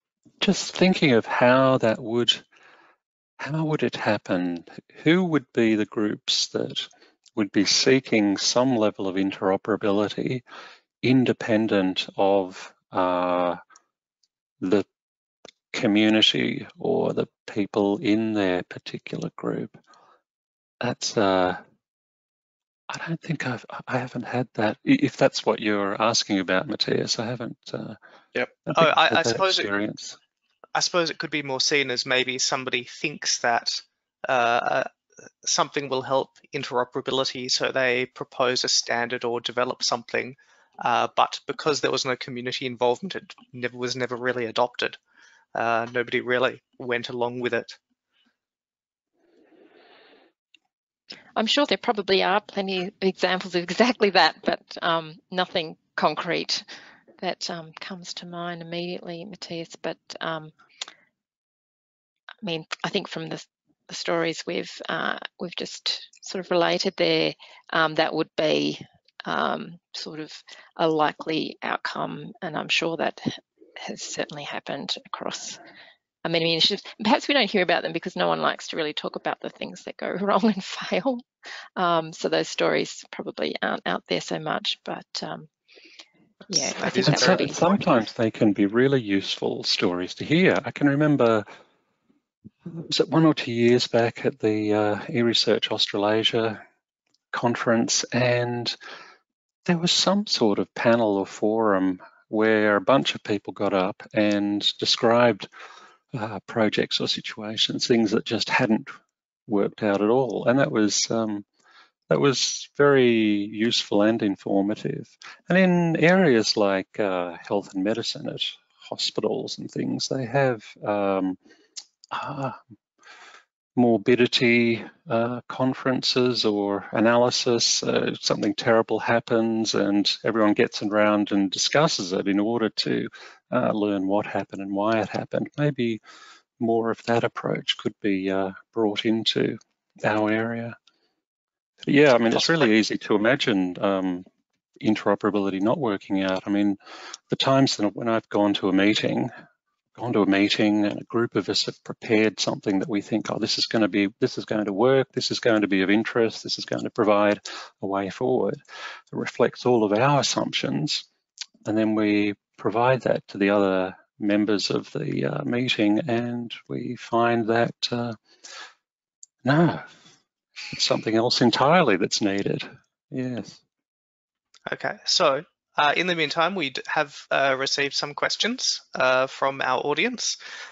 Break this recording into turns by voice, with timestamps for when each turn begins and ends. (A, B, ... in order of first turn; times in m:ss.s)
0:00.4-0:02.4 A
0:03.4-0:10.4 A
0:11.0-0:13.6 A
0:14.6-0:14.9 A
0:15.7-0:19.8 A
0:20.8-0:21.6 A
0:22.9-0:28.0 A
0:28.4-0:29.7 B
0:28.7-0:30.2 A
0:30.8-0:34.9 B
0:35.4-0:45.0 B
0:45.6-0:47.8 B
0:51.4-0:56.7 C
0:57.2-1:00.5 C
1:02.4-1:15.6 C
1:16.2-1:21.2 C
1:21.8-1:25.5 C
1:26.5-1:27.8 B
1:26.5-1:27.6 C
1:27.0-1:31.5 A
1:32.7-1:36.6 A
1:37.3-1:38.8 A
1:39.7-1:45.5 A
1:46.1-1:51.4 A
1:52.1-2:01.4 A
2:02.1-2:02.6 A
2:03.8-2:16.0 A
2:16.6-2:20.8 A
2:21.8-2:24.2 A
2:24.8-2:26.8 A
2:27.3-2:29.3 A
2:30.0-2:38.6 A
2:39.1-2:41.0 A
2:41.6-2:48.2 A
2:49.4-2:49.9 A
2:50.7-2:53.6 A
2:54.7-3:00.4 B